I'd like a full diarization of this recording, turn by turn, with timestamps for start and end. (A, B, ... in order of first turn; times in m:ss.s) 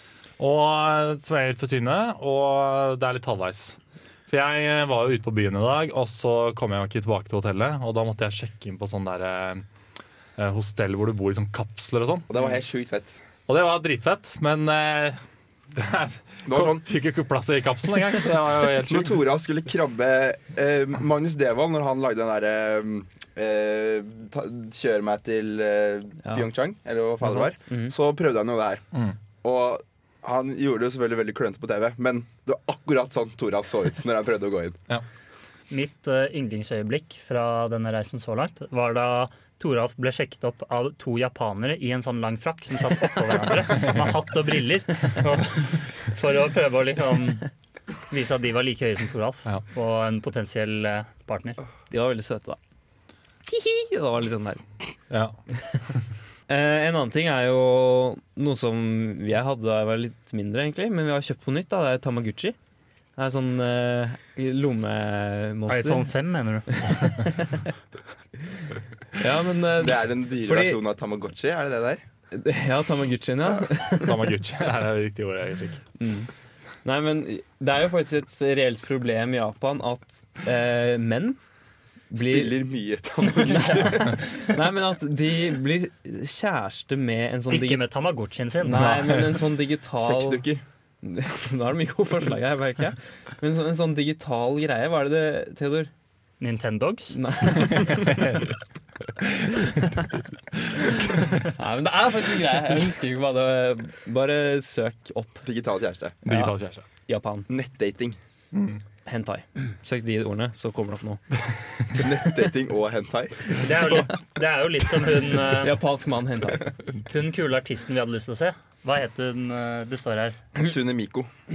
0:00.4-0:09.6 A
0:10.4-0:12.3 A
0:12.3-0:13.2 B
0:13.5-0:15.2 A
0:15.8-0:19.2 A
0:16.5-0:16.9 B
0:18.9-0:28.8 B
0:27.2-0:27.9 C
0:29.4-0:34.8 B
0:35.7-0:47.5 D
0:48.1-0:51.6 D
0:51.9-0:52.6 C
0:53.5-0:54.6 C
0:55.1-0:55.4 A
0:56.5-1:02.6 C
1:03.2-1:06.1 C
1:05.7-1:07.3 D
1:06.8-1:07.6 C
1:09.2-1:10.8 C
1:09.8-1:12.0 B
1:12.3-1:14.2 C
1:14.0-1:15.8 A
1:16.0-1:16.3 C
1:16.8-1:21.4 C
1:22.1-1:22.6 C
1:22.2-1:24.2 B
1:23.4-1:27.8 C
1:27.5-1:29.0 D
1:28.6-1:30.5 C
1:28.7-1:29.4 A
1:30.0-1:30.6 B
1:31.0-1:35.9 C
1:36.4-1:37.2 D
1:37.1-1:38.2 C
1:37.9-1:38.4 A
1:39.2-1:40.0 A
1:41.4-1:45.4 C
1:45.4-1:46.2 B
1:46.2-1:46.8 A
1:46.3-1:46.5 C
1:47.1-1:47.5 C
1:47.5-1:48.2 B
1:48.5-1:48.8 A
1:49.0-1:51.2 C
1:52.0-1:53.7 B
1:53.6-1:55.8 D
1:55.6-1:56.7 C
1:57.1-2:00.4 D
2:00.6-2:01.3 B